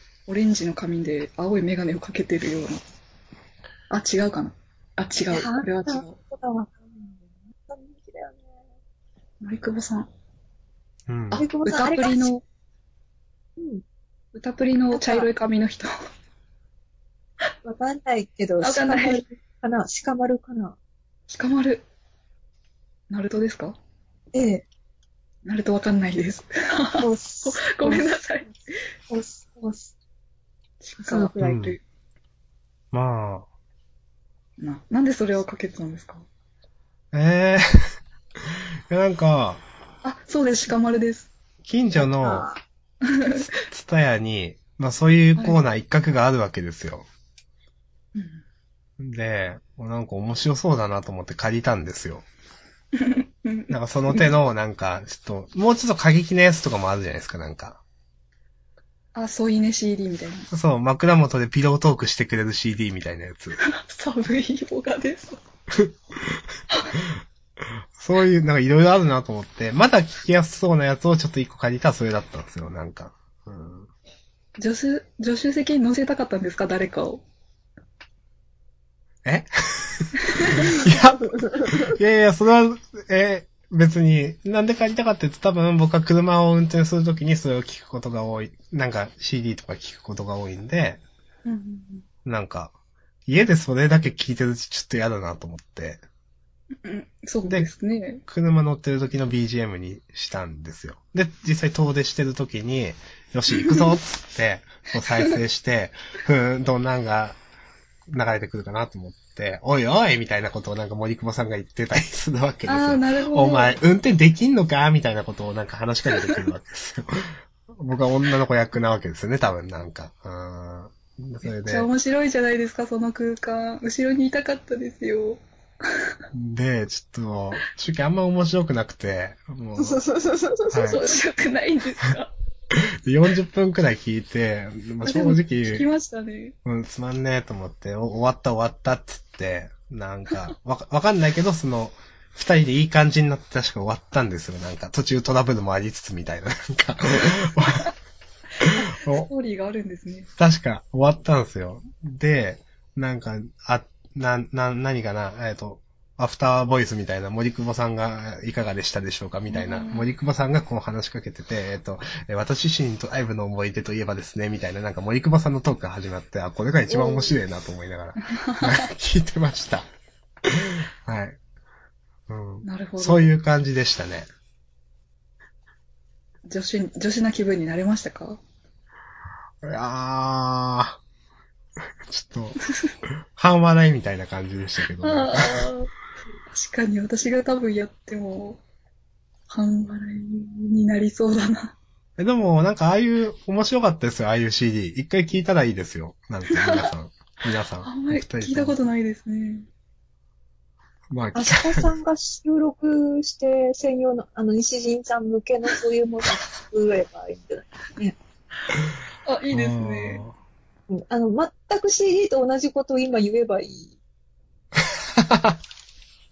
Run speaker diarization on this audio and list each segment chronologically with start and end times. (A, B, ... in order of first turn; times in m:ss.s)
0:00.3-0:02.8 A
0:03.9-0:06.2 A
0:05.3-0:08.6 B
0:09.4-0:10.1 A
0:11.1-0:11.4 C
0:11.3-0:12.4 A
0:11.4-0:12.3 B
0:13.6-0:13.8 B
0:14.3-0:15.9 A
0:14.9-0:15.3 B
0:17.6-0:20.8 B
0:18.6-0:19.2 A
0:21.3-0:21.8 A
0:23.1-0:23.8 A
0:24.3-0:24.7 B
0:25.4-0:28.7 A
0:27.0-0:28.1 B
0:29.1-0:29.9 B
0:30.8-0:31.3 A
0:31.0-0:31.8 B
0:31.4-0:31.8 C
0:32.9-0:33.5 C
0:34.6-0:36.3 A
0:37.1-0:37.6 C
0:38.9-0:39.6 C
0:40.0-0:41.3 A
0:41.6-0:42.5 C
0:41.9-0:42.6 B
0:43.2-0:43.4 A
0:43.4-0:47.1 C
0:48.2-0:48.4 A
0:49.0-0:52.2 C
0:53.0-0:54.3 A
0:53.7-0:57.8 C
0:59.2-1:00.5 A
1:00.5-1:03.6 C
1:03.6-1:05.4 A
1:08.0-1:13.9 C
1:14.6-1:17.2 A
1:19.2-1:31.0 C
1:20.4-1:20.6 A
1:21.0-1:21.9 B
1:31.4-1:32.0 A
1:32.2-1:32.7 C
1:33.3-1:36.0 C
1:36.8-1:38.2 A
1:37.4-1:37.7 C
1:38.2-1:47.4 C
1:48.1-2:01.9 C
1:52.7-1:53.8 A
1:56.2-1:56.5 A
2:01.4-2:05.4 A
2:06.3-2:10.0 C
2:09.8-2:11.2 B
2:10.7-2:11.0 C
2:10.9-2:12.3 A
2:13.0-2:15.9 C
2:15.0-2:16.6 A
2:16.6-2:27.9 C
2:27.6-2:27.9 A
2:28.8-2:30.3 A
2:29.0-2:29.3 C
2:30.4-2:49.9 C
2:39.5-2:40.1 A
2:46.9-2:47.4 B
2:48.3-2:48.6 A
2:50.5-2:51.4 C
2:52.3-2:54.3 C
2:52.6-2:53.3 A
2:56.5-2:58.4 A
2:59.6-3:01.0 C
3:02.1-3:02.6 C
3:03.4-3:05.7 C
3:05.0-3:05.9 A
3:06.5-3:08.6 A
3:09.5-3:11.8 A
3:12.2-3:18.8 C
3:16.5-3:16.9 A
3:17.8-3:19.7 A
3:21.1-3:21.9 C
3:21.4-3:28.2 B
3:29.2-3:30.2 A
3:29.5-3:30.3 C
3:30.9-3:34.0 B